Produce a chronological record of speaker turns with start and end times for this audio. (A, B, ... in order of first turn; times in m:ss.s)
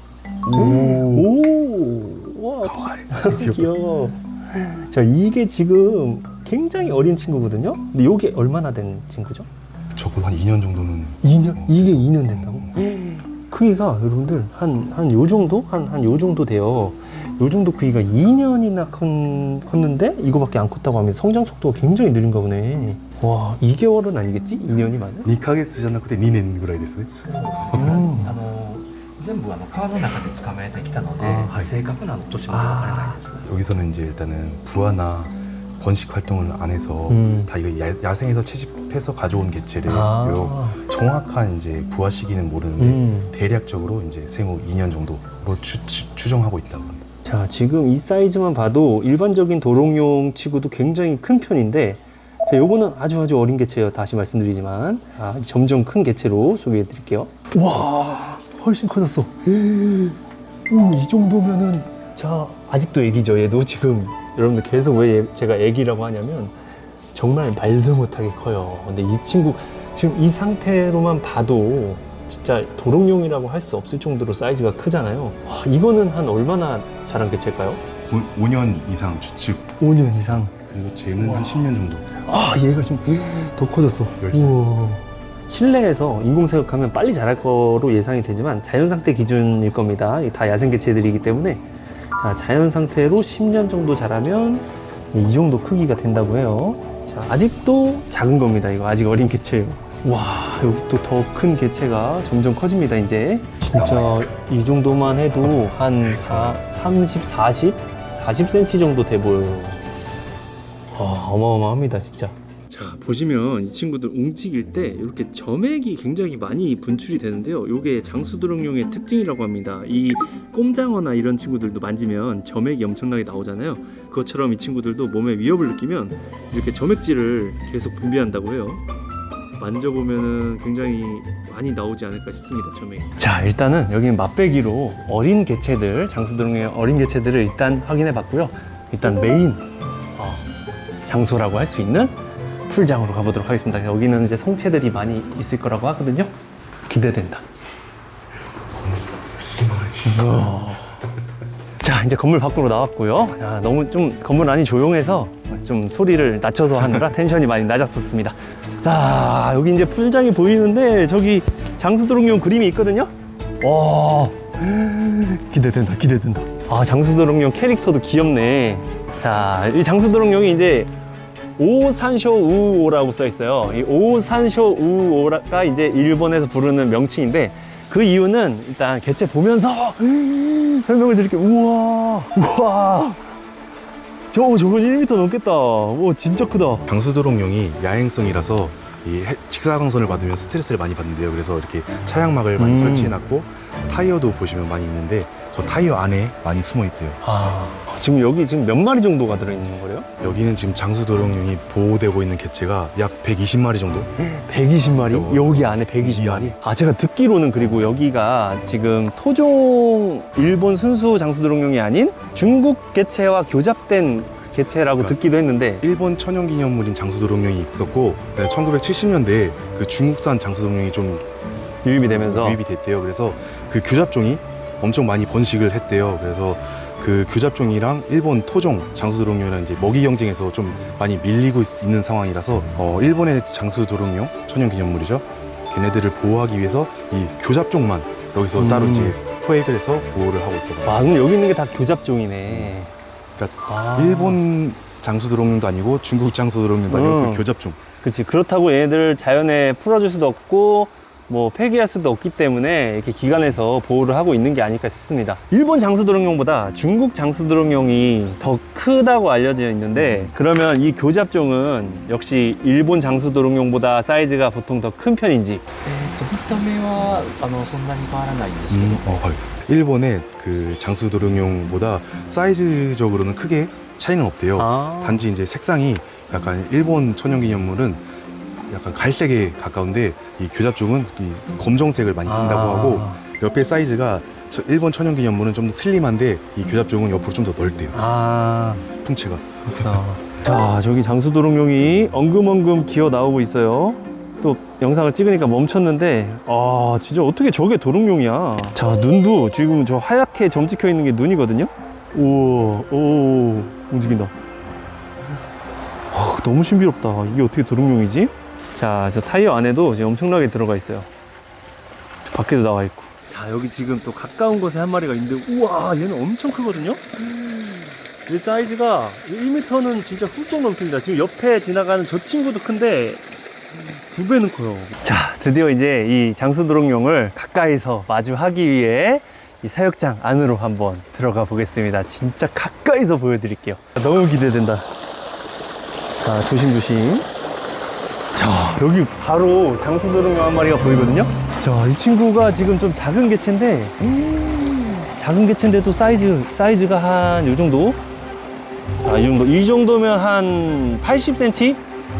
0:00.4-0:01.3 A
0:00.5-0:09.5 B
0:02.6-0:03.7 A
0:10.0-0:12.7 A
0:11.2-0:25.3 B
0:25.2-0:28.0 A
0:27.3-0:33.4 C
0:27.7-0:28.4 B
0:31.2-0:31.7 B
0:32.5-0:33.2 B
0:33.4-0:47.0 A
0:37.1-0:37.5 B
0:39.8-0:40.8 B
0:42.8-0:43.3 B
0:47.2-1:06.5 B
1:07.1-1:17.8 B
1:18.1-1:19.7 A
1:19.8-1:20.5 B
1:20.5-1:22.1 A
1:21.2-1:31.6 B
1:24.2-1:24.6 A
1:32.2-1:49.8 B
1:43.7-1:44.3 A
1:46.1-1:46.6 A
1:50.9-2:08.8 B
2:09.6-2:19.6 B
2:20.2-2:20.4 B
2:21.0-2:22.1 B
2:22.7-2:26.3 B
2:26.9-2:27.4 B
2:29.5-2:30.0 A
2:30.0-2:31.0 B
2:31.8-2:50.9 B
2:51.6-3:03.2 B
3:04.3-3:06.9 B
3:06.9-3:17.2 A
3:12.6-3:13.2 B
3:17.2-3:20.1 B
3:20.2-3:24.1 A
3:24.2-3:35.8 B
3:24.9-3:26.6 A
3:35.8-3:41.2 A
3:41.8-3:42.6 B
3:42.1-4:01.1 A
3:58.6-3:59.2 B
4:00.8-4:02.9 B
4:03.4-4:07.8 A
4:03.6-4:04.4 B
4:06.9-4:07.4 B
4:08.0-4:25.6 B
4:25.8-4:29.0 C
4:28.7-4:38.0 A
4:34.6-4:35.3 B
4:38.7-4:48.0 A
4:42.2-4:43.2 B
4:47.9-4:48.8 B
4:49.0-4:50.0 A
4:49.6-5:04.3 B
5:06.1-5:11.1 B
5:12.3-5:23.2 B
5:23.8-5:34.9 B
5:36.2-5:37.3 B
5:38.3-5:48.0 B
5:49.0-5:51.8 B